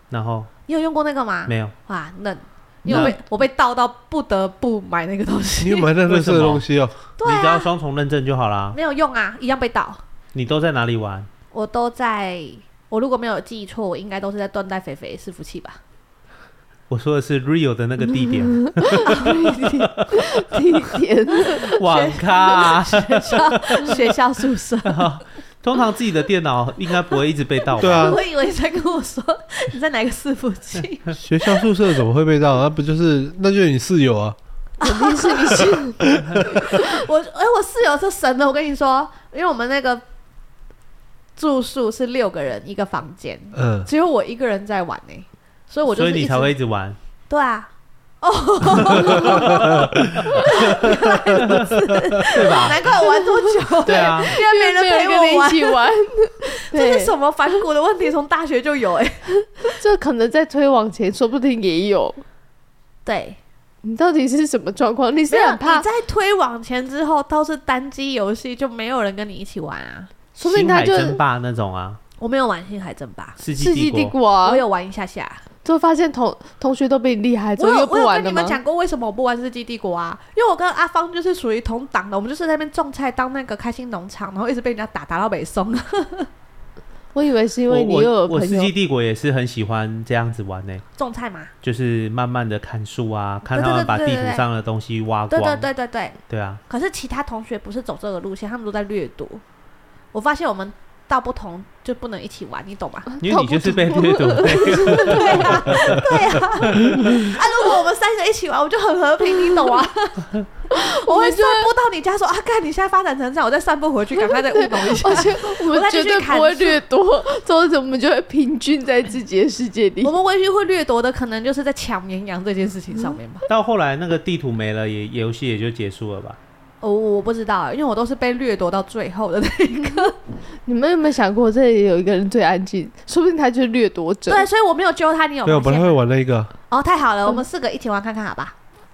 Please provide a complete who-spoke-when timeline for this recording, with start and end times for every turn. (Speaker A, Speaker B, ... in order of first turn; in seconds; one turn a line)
Speaker A: 0.1-0.5
Speaker B: 0.7-5.9
Speaker A: 1.5-1.7
Speaker C: 2.9-3.2
Speaker A: 2.9-3.1
Speaker D: 5.6-7.0
Speaker A: 6.1-6.7
Speaker B: 7.2-7.7
Speaker A: 7.2-8.8
Speaker B: 8.7-10.0
Speaker A: 10.3-11.3
Speaker B: 11.5-15.8
Speaker A: 16.9-20.0
Speaker C: 18.7-21.8
Speaker A: 21.6-24.0
Speaker B: 21.6-25.2
Speaker A: 24.9-28.2
Speaker D: 27.8-28.2
Speaker B: 27.8-31.7
Speaker D: 31.2-34.4
Speaker B: 34.8-35.7
Speaker C: 34.8-36.1
Speaker B: 36.5-40.0
Speaker B: 41.4-46.5
Speaker D: 43.6-43.9
Speaker A: 45.9-47.0
Speaker B: 47.3-47.7
Speaker B: 48.2-55.8
Speaker A: 49.0-50.5
Speaker D: 49.2-50.0
Speaker D: 50.8-51.7
Speaker A: 52.3-52.9
Speaker C: 52.9-57.1
Speaker A: 53.9-54.4
Speaker B: 56.6-59.8
Speaker C: 59.8-62.2
Speaker B: 63.1-63.4
Speaker C: 63.8-65.8
Speaker B: 65.3-70.1
Speaker C: 70.4-71.2
Speaker A: 70.4-72.0
Speaker B: 72.2-73.4
Speaker A: 73.4-74.1
Speaker C: 73.6-74.6
Speaker B: 74.4-75.4
Speaker C: 75.6-78.6
Speaker B: 77.6-86.3
Speaker C: 87.1-88.7
Speaker A: 87.7-90.8
Speaker B: 91.0-91.5
Speaker A: 91.6-95.7
Speaker B: 93.5-94.4
Speaker B: 95.3-96.2
Speaker A: 96.3-96.6
Speaker B: 96.7-99.4
Speaker B: 100.1-103.2
Speaker C: 103.2-105.7
Speaker A: 103.2-106.1
Speaker B: 105.0-116.8
Speaker C: 110.7-111.7
Speaker C: 114.2-120.1
Speaker B: 120.0-123.5
Speaker A: 123.5-126.4
Speaker B: 126.8-130.2
Speaker C: 130.7-134.4
Speaker B: 134.3-136.0
Speaker D: 135.5-136.5
Speaker B: 136.7-138.6